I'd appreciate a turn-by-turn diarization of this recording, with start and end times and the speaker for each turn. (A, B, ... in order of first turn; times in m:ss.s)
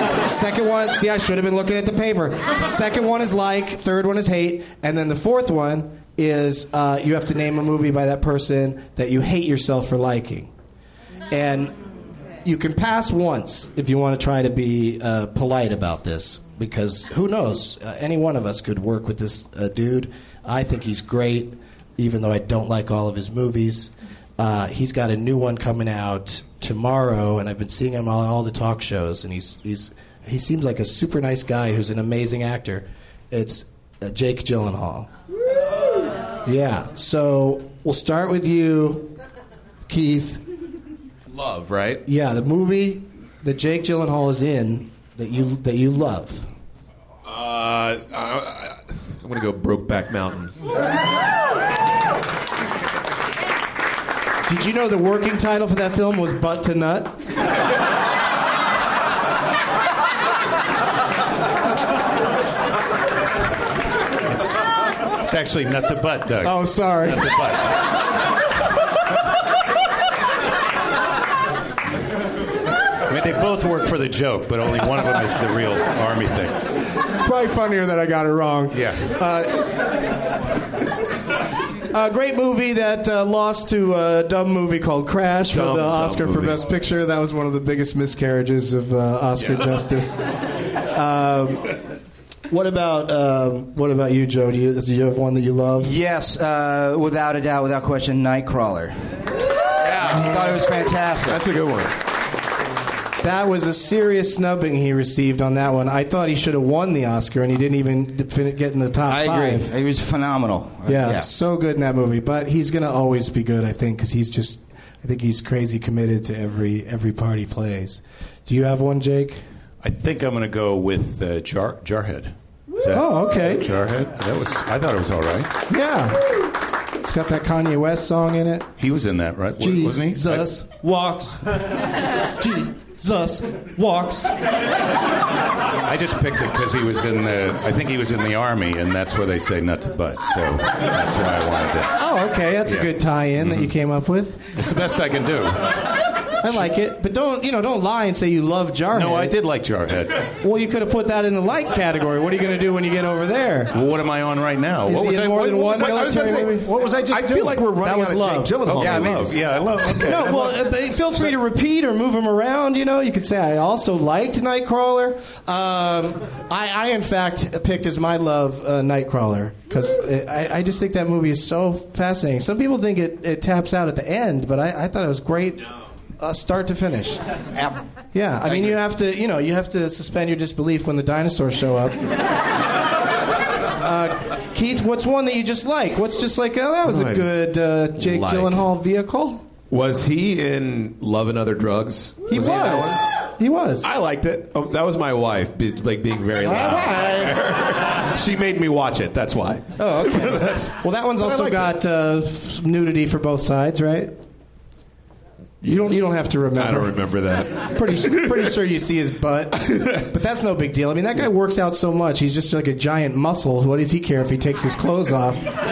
0:00.2-0:10.5 A
0:11.3-0:11.8 A
0:12.4-0:35.1 A
0:36.4-0:39.1 A
0:39.9-0:40.4 A
0:41.3-0:42.0 B
0:42.0-0:46.5 A
0:47.2-0:50.6 B
0:54.5-0:57.2 A
1:04.3-1:07.7 C
1:06.4-1:07.3 A
1:13.1-1:16.6 C
1:17.1-1:19.6 A
1:18.7-1:19.1 C
1:21.9-1:30.2 A
1:25.5-1:26.6 B
1:29.4-1:29.7 B
1:30.9-1:31.8 A
1:32.5-1:36.0 A
1:35.8-1:39.2 D
1:39.8-1:42.0 B
1:40.1-1:41.4 D
1:43.2-1:49.7 A
1:49.1-1:51.3 D
1:50.9-1:59.4 A
1:59.8-2:05.5 C
2:02.9-2:03.6 A
2:05.7-2:08.7 A
2:08.8-2:10.5 C
2:09.6-2:11.4 A
2:12.4-2:14.3 A
2:15.8-2:22.0 C
2:22.0-2:24.4 A
2:23.4-2:23.7 C
2:24.6-2:25.9 C
2:26.4-2:29.4 A
2:26.4-2:26.7 C
2:28.9-2:30.3 C
2:30.4-2:33.8 A
2:33.7-2:37.6 C
2:34.8-2:36.7 A
2:35.0-2:40.4 B
2:37.8-2:38.7 A
2:38.6-2:40.6 C
2:38.8-2:39.4 D
2:40.0-2:57.2 A
2:58.1-3:02.0 A
3:03.8-3:09.5 A
3:06.8-3:07.4 B
3:08.0-3:08.6 B
3:09.7-3:13.1 B
3:12.3-3:13.9 A
3:13.8-3:21.7 B
3:16.4-3:17.4 A
3:19.8-3:24.2 A
3:25.6-3:28.4 B
3:25.6-3:35.4 A
3:29.7-3:30.0 B